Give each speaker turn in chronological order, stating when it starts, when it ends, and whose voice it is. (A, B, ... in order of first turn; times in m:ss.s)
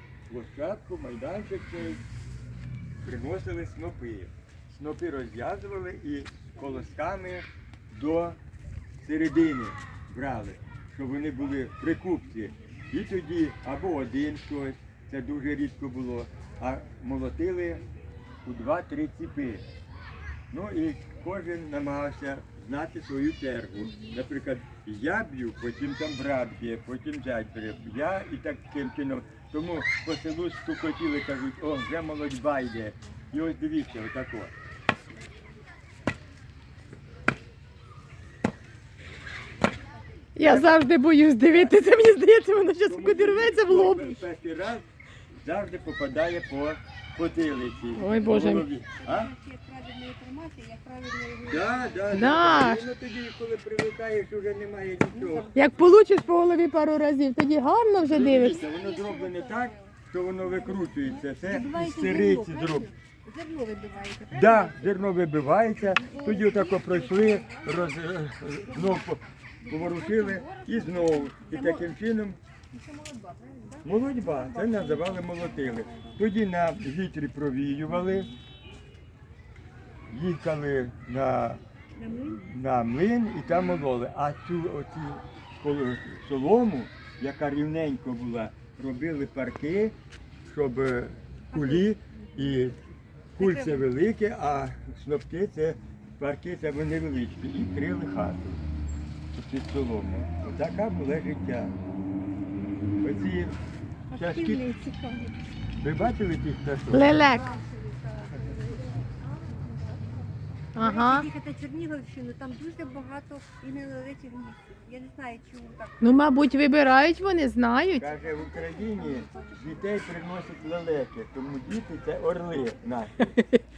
0:00.3-0:02.0 A
0:03.0-0:08.4 A
0:09.0-0:17.8 A
0:18.4-0:19.6 A
0:20.5-0:34.5 A
0:40.4-0:44.2 B
0:40.4-0:40.8 A
0:41.5-0:41.7 A
0:42.8-0:44.9 A
0:45.4-0:49.3 A
0:48.0-0:48.6 B
0:48.9-0:52.0 C
0:51.5-0:55.5 A
0:52.1-0:52.8 B
0:55.1-0:55.9 C
0:55.6-0:58.6 B
0:58.1-1:02.9 A
0:58.1-1:00.0 C
1:00.5-1:04.8 C
1:04.3-1:12.4 A
1:06.0-1:07.9 C
1:08.7-1:09.1 C
1:09.6-1:11.9 C
1:12.7-1:16.2 C
1:13.8-1:18.3 A
1:18.0-1:18.3 C
1:20.1-1:21.6 A
1:22.0-1:22.4 C
1:22.3-1:32.8 A
1:31.5-1:31.9 C
1:33.4-1:38.6 A
1:33.4-1:33.9 C
1:39.3-1:41.8 A
1:43.0-1:43.6 A
1:44.1-1:45.4 C
1:44.2-1:44.6 A
1:45.8-1:47.3 A
1:46.9-1:47.5 B
1:47.2-1:56.3 C
1:50.8-1:51.3 B
1:56.0-1:58.1 B
1:58.0-2:03.4 A
1:58.1-1:59.9 C